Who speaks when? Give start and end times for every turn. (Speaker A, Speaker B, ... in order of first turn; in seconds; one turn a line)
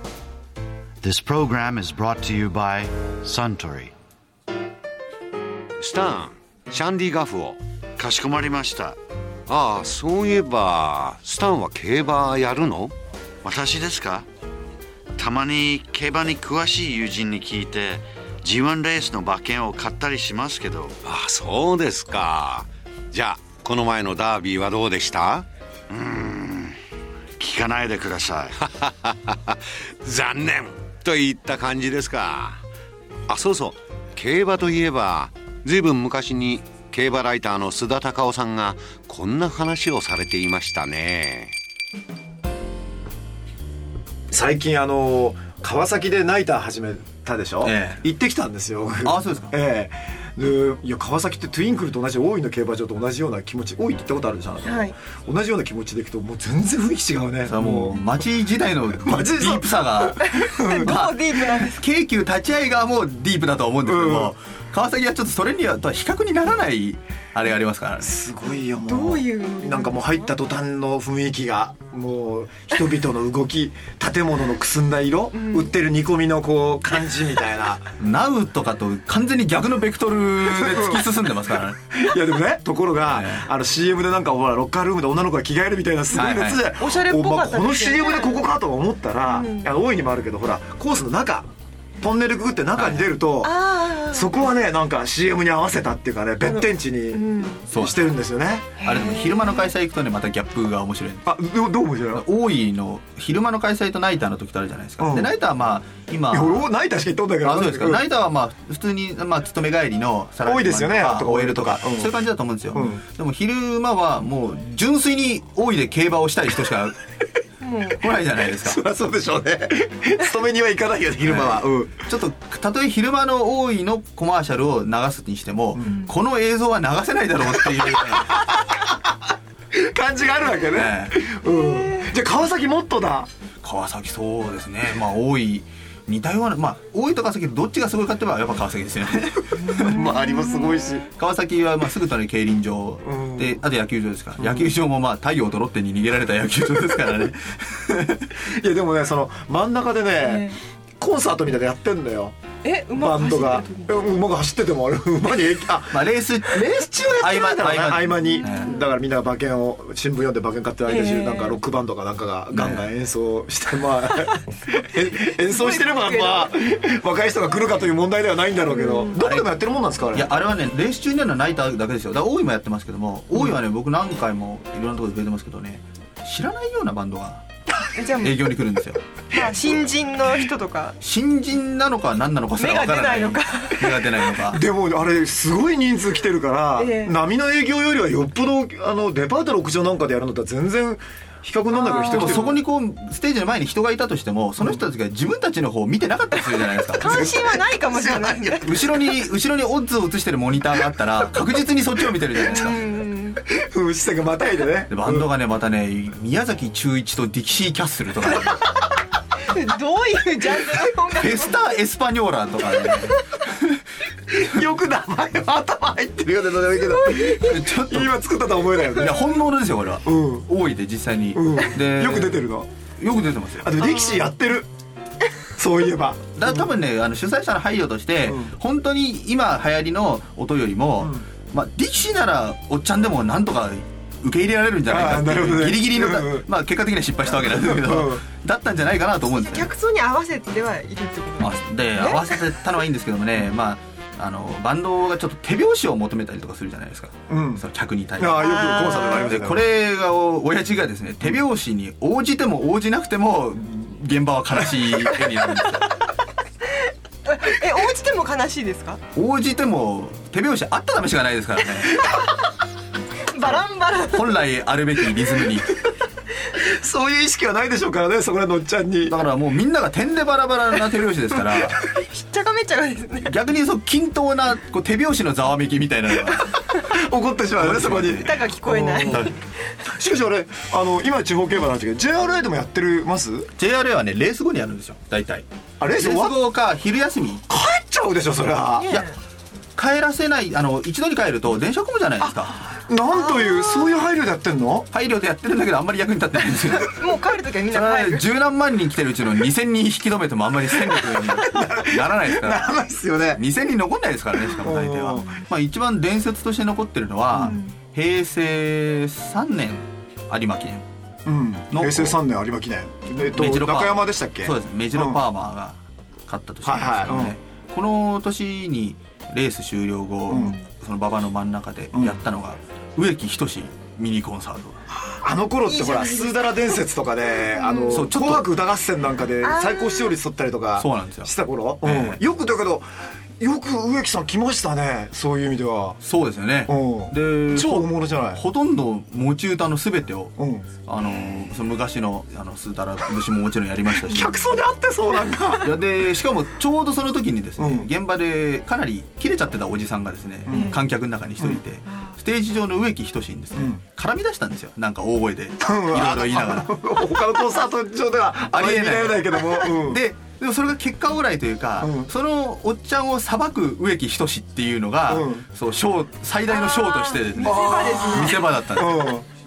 Speaker A: 1.0-3.9
Speaker B: 5.8-7.6
Speaker A: 8.0-8.9
Speaker B: 9.5-12.9
Speaker A: 13.4-14.2
Speaker A: 15.2-21.0
Speaker B: 21.0-26.7
Speaker A: 27.4-28.6
Speaker B: 27.9-32.6
Speaker B: 33.3-41.5
Speaker C: 44.3-58.0
Speaker D: 47.6-48.1
Speaker D: 49.0-49.6
Speaker E: 54.6-54.9
Speaker D: 57.5-60.2
Speaker C: 59.0-61.0
Speaker E: 60.4-61.8
Speaker D: 60.8-68.1
Speaker C: 63.8-64.3
Speaker C: 68.0-77.9
Speaker E: 68.9-70.2
Speaker E: 75.4-75.6
Speaker D: 78.0-81.8
Speaker C: 80.5-81.0
Speaker C: 81.9-93.5
Speaker D: 83.1-83.5
Speaker D: 86.1-86.7
Speaker E: 86.8-88.4
Speaker E: 89.3-89.7
Speaker D: 92.7-93.2
Speaker E: 93.4-94.3
Speaker C: 94.1-98.8
Speaker E: 97.1-97.6
Speaker D: 97.7-98.1
Speaker E: 98.8-99.7
Speaker D: 98.8-101.4
Speaker C: 101.2-102.3
Speaker D: 102.1-106.7
Speaker C: 105.0-105.3
Speaker C: 106.3-108.1
Speaker D: 107.4-117.0
Speaker C: 110.4-112.1
Speaker C: 112.7-113.0
Speaker E: 117.7-117.9
Speaker D: 118.0-118.8
Speaker C: 118.6-122.1
Speaker D: 121.2-128.5
Speaker C: 128.3-128.9
Speaker C: 129.7-133.3
Speaker D: 130.7-131.3
Speaker D: 133.6-140.2
Speaker C: 139.8-141.1
Speaker E: 140.2-140.7
Speaker D: 141.0-148.3
Speaker C: 143.0-143.6
Speaker C: 144.4-144.7
Speaker C: 148.4-152.3
Speaker E: 152.6-154.0
Speaker C: 152.9-170.4
Speaker D: 155.9-158.8
Speaker E: 158.5-158.8
Speaker E: 160.9-161.6
Speaker D: 162.5-162.9
Speaker E: 165.6-166.4
Speaker E: 168.7-169.0
Speaker D: 169.1-177.4
Speaker E: 178.0-178.3
Speaker D: 178.2-179.0
Speaker E: 179.3-181.0
Speaker D: 181.0-184.6
Speaker E: 182.6-183.8
Speaker C: 184.5-192.5
Speaker E: 186.8-187.1
Speaker E: 191.7-192.4
Speaker D: 192.0-197.1
Speaker E: 197.0-198.7
Speaker C: 197.0-198.6
Speaker D: 198.6-202.8
Speaker E: 202.6-203.4
Speaker C: 203.5-205.3
Speaker D: 204.9-208.7
Speaker E: 209.5-211.6
Speaker D: 211.2-213.5
Speaker C: 214.3-219.1
Speaker D: 217.4-218.2
Speaker D: 218.9-222.4
Speaker C: 220.0-220.4
Speaker C: 221.3-222.7
Speaker D: 223.0-223.8
Speaker C: 223.6-224.7
Speaker C: 225.6-226.7
Speaker D: 226.3-239.7
Speaker C: 228.2-228.5
Speaker C: 231.0-231.2
Speaker C: 234.9-236.5
Speaker C: 237.5-238.2
Speaker E: 239.3-242.2
Speaker D: 241.4-255.9
Speaker C: 247.3-247.6
Speaker C: 248.2-249.6
Speaker E: 248.4-249.3
Speaker E: 257.3-259.0
Speaker D: 259.1-262.1
Speaker E: 263.3-264.3
Speaker D: 263.4-265.8
Speaker C: 266.5-269.2
Speaker D: 269.0-271.8
Speaker E: 272.1-273.3
Speaker D: 273.2-276.7
Speaker C: 276.9-279.3
Speaker D: 277.5-278.4
Speaker E: 278.2-279.3
Speaker D: 279.1-279.3
Speaker C: 279.9-283.5
Speaker D: 283.6-287.4
Speaker C: 285.8-286.4
Speaker C: 287.5-288.9
Speaker E: 288.8-289.1
Speaker D: 289.8-292.6
Speaker C: 292.2-294.9
Speaker E: 293.1-293.6
Speaker D: 294.9-297.0
Speaker E: 296.9-298.3
Speaker D: 297.7-302.7
Speaker C: 300.7-303.4
Speaker D: 303.3-310.9
Speaker C: 304.6-305.3
Speaker E: 307.4-307.7
Speaker C: 311.2-315.2
Speaker D: 311.7-312.2
Speaker D: 313.3-324.8
Speaker C: 316.6-317.4
Speaker C: 320.3-320.5
Speaker C: 325.0-336.0
Speaker E: 325.7-326.6
Speaker E: 327.6-327.9
Speaker D: 327.9-328.5
Speaker E: 329.6-330.1
Speaker D: 330.8-332.2
Speaker D: 336.0-344.3
Speaker C: 336.7-338.4
Speaker C: 340.4-340.7
Speaker C: 343.9-345.7
Speaker D: 345.6-356.9
Speaker C: 347.6-347.9
Speaker C: 350.4-350.8
Speaker C: 353.5-353.8
Speaker C: 355.6-360.0
Speaker D: 358.5-369.1
Speaker C: 361.8-362.1
Speaker C: 365.1-365.4
Speaker C: 367.4-369.2
Speaker E: 367.5-368.1